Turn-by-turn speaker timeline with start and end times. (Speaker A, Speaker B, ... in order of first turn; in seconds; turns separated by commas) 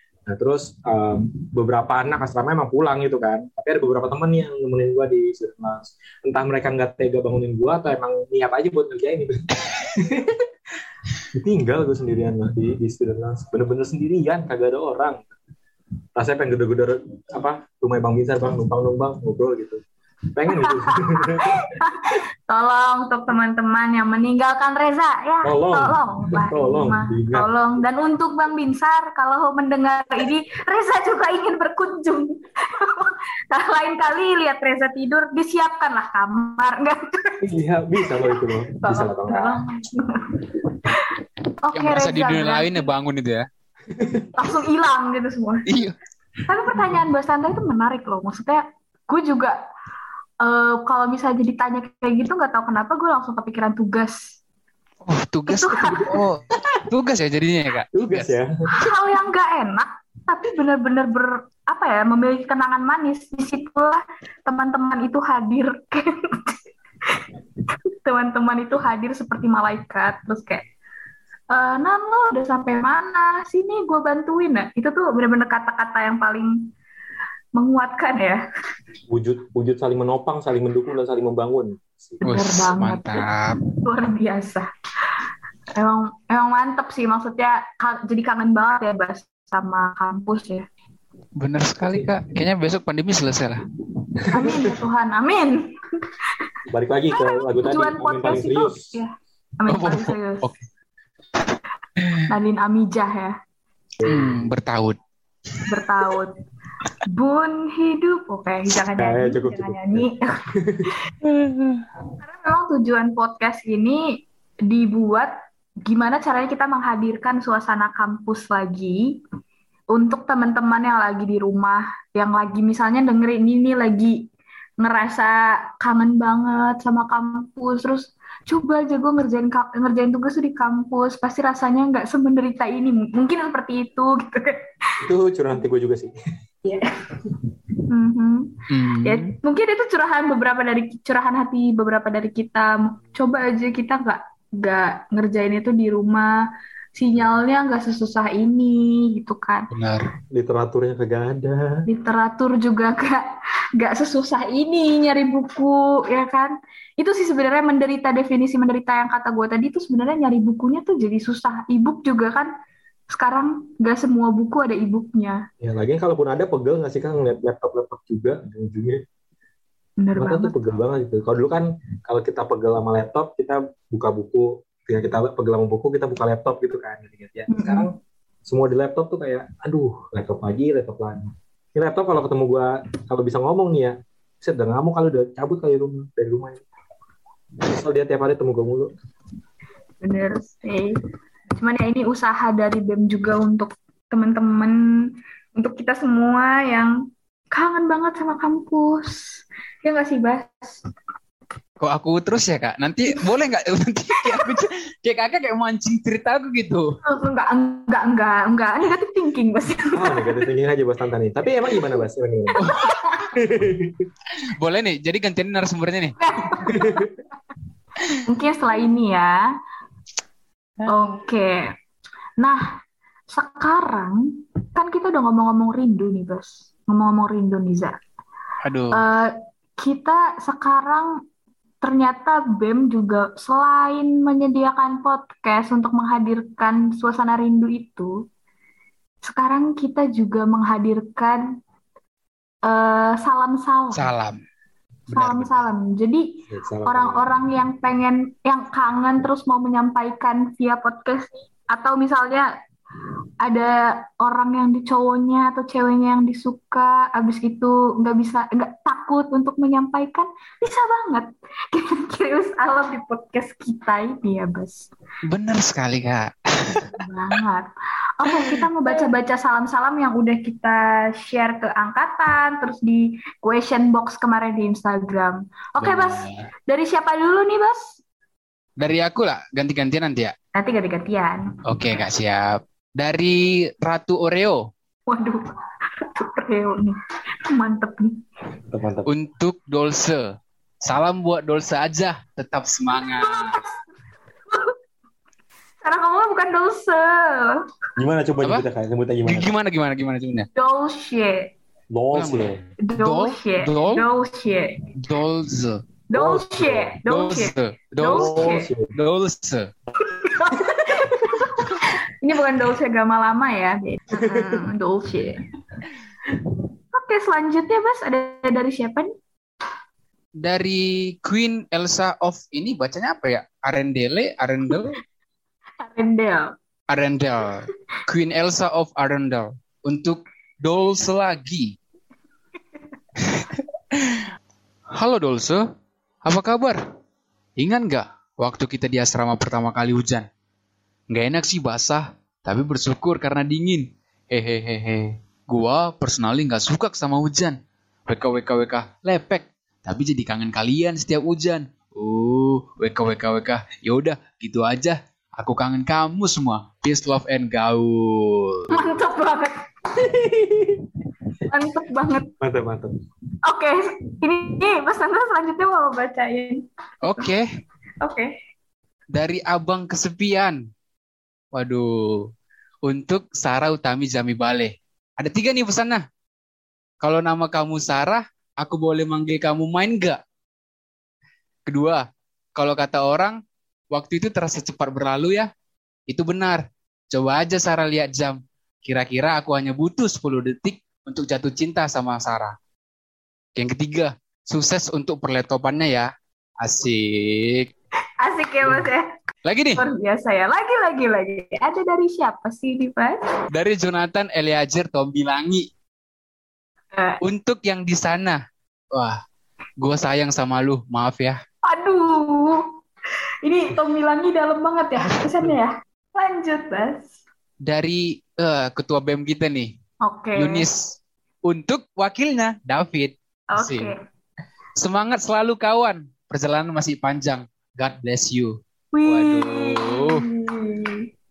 Speaker A: 0.3-10.5, Speaker A: 11.2-15.3, Speaker A: 16.2-19.8, Speaker A: 20.3-21.7, Speaker B: 20.5-37.4, Speaker A: 25.4-27.5, Speaker A: 37.4-39.6, Speaker B: 38.0-42.9, Speaker C: 41.7-43.5, Speaker A: 43.9-44.5, Speaker B: 44.4-45.7, Speaker C: 45.7-46.0, Speaker B: 46.5-49.6, Speaker A: 46.7-47.0, Speaker B: 50.4-54.4, Speaker C: 55.0-58.3, Speaker B: 55.5-56.1, Speaker A: 55.8-56.6, Speaker A: 57.9-58.9, Speaker B: 58.7-66.6, Speaker B: 67.9-70.7, Speaker B: 71.5-76.5, Speaker B: 77.6-78.4, Speaker A: 79.1-82.2, Speaker B: 82.2-83.3, Speaker C: 82.2-83.6, Speaker B: 83.8-84.7, Speaker B: 85.8-90.7, Speaker C: 91.4-93.6, Speaker A: 91.8-92.1, Speaker A: 94.2-94.7, Speaker B: 94.3-95.7, Speaker A: 96.7-99.0, Speaker B: 97.1-100.5, Speaker C: 99.7-100.6, Speaker B: 102.3-103.4, Speaker A: 104.0-104.5, Speaker C: 104.0-105.0, Speaker B: 105.7-106.4, Speaker B: 107.1-110.4, Speaker A: 109.0-111.0, Speaker C: 111.2-111.8, Speaker B: 112.2-115.3, Speaker B: 115.8-119.0, Speaker B: 119.9-124.2, Speaker B: 124.8-135.0, Speaker A: 135.0-136.1, Speaker B: 136.7-137.1, Speaker B: 137.9-146.4, Speaker C: 138.7-139.3, Speaker B: 147.0-149.7, Speaker C: 149.7-150.1, Speaker A: 150.3-151.8, Speaker B: 151.9-153.3, Speaker B: 153.8-162.5, Speaker B: 163.1-165.4, Speaker A: 165.6-169.0, Speaker B: 170.0-170.8, Speaker A: 170.2-177.9, Speaker B: 177.5-177.9, Speaker A: 178.5-186.7, Speaker A: 187.6-188.9, Speaker B: 190.0-191.0, Speaker B: 191.6-194.8, Speaker B: 195.6-196.9, Speaker B: 197.5-200.8, Speaker C: 201.8-207.0, Speaker B: 204.2-204.6, Speaker B: 207.0-210.4, Speaker A: 209.9-212.7, Speaker B: 212.6-213.3, Speaker C: 212.6-213.0, Speaker A: 213.3-214.1, Speaker C: 214.4-216.2, Speaker B: 216.2-217.1, Speaker A: 216.6-217.2, Speaker B: 218.2-219.4, Speaker C: 220.8-221.1, Speaker B: 220.9-221.7, Speaker B: 222.4-222.7, Speaker B: 223.3-228.0, Speaker C: 228.6-229.0, Speaker B: 228.9-231.1, Speaker B: 231.8-238.1, Speaker B: 239.2-241.4, Speaker B: 242.7-244.1, Speaker C: 243.9-244.4, Speaker B: 245.1-246.3, Speaker A: 245.2-245.5, Speaker A: 246.5-247.3, Speaker B: 246.9-252.5, Speaker B: 253.4-264.9, Speaker C: 265.3-266.9, Speaker B: 266.9-278.0, Speaker C: 268.3-268.7, Speaker C: 275.8-276.5, Speaker C: 278.8-280.3, Speaker B: 280.6-281.6, Speaker C: 281.7-284.7, Speaker B: 285.1-288.2, Speaker A: 288.6-289.1, Speaker C: 289.1-293.6, Speaker B: 293.0-293.7, Speaker B: 295.8-297.6, Speaker A: 298.0-299.5, Speaker C: 299.3-300.5, Speaker B: 300.6-301.5, Speaker A: 301.9-302.6, Speaker C: 302.1-304.1, Speaker B: 302.8-304.8, Speaker C: 305.0-305.8, Speaker B: 306.1-308.7, Speaker A: 306.1-307.0, Speaker C: 307.1-309.7, Speaker A: 308.0-308.9, Speaker B: 310.1-315.5, Speaker A: 314.1-314.6, Speaker B: 316.9-319.1, Speaker C: 320.4-325.0, Speaker B: 325.8-326.5, Speaker C: 326.9-331.8, Speaker C: 333.2-334.3, Speaker C: 334.9-335.6, Speaker C: 336.2-336.8, Speaker C: 337.6-340.3, Speaker C: 341.1-358.7, Speaker B: 358.7-359.7, Speaker A: 359.9-360.9, Speaker B: 361.5-362.3, Speaker A: 362.4-362.9, Speaker B: 363.5-367.3, Speaker C: 367.0-367.5, Speaker B: 368.0-368.3, Speaker C: 369.1-370.6, Speaker C: 371.5-372.3, Speaker C: 372.8-376.1, Speaker C: 377.0-380.2, Speaker C: 381.7-383.4, Speaker C: 383.9-385.5, Speaker C: 386.1-392.6, Speaker C: 393.6-397.7, Speaker B: 398.2-399.1, Speaker C: 399.5-399.8, Speaker B: 399.8-403.2, Speaker C: 403.5-405.7, Speaker B: 406.9-407.2, Speaker C: 407.2-409.2, Speaker C: 409.8-411.4, Speaker B: 411.7-412.7, Speaker B: 413.4-417.1, Speaker C: 417.6-419.7, Speaker B: 420.0-420.7, Speaker C: 420.4-423.9, Speaker B: 423.5-424.0, Speaker C: 424.8-430.3, Speaker B: 428.9-431.1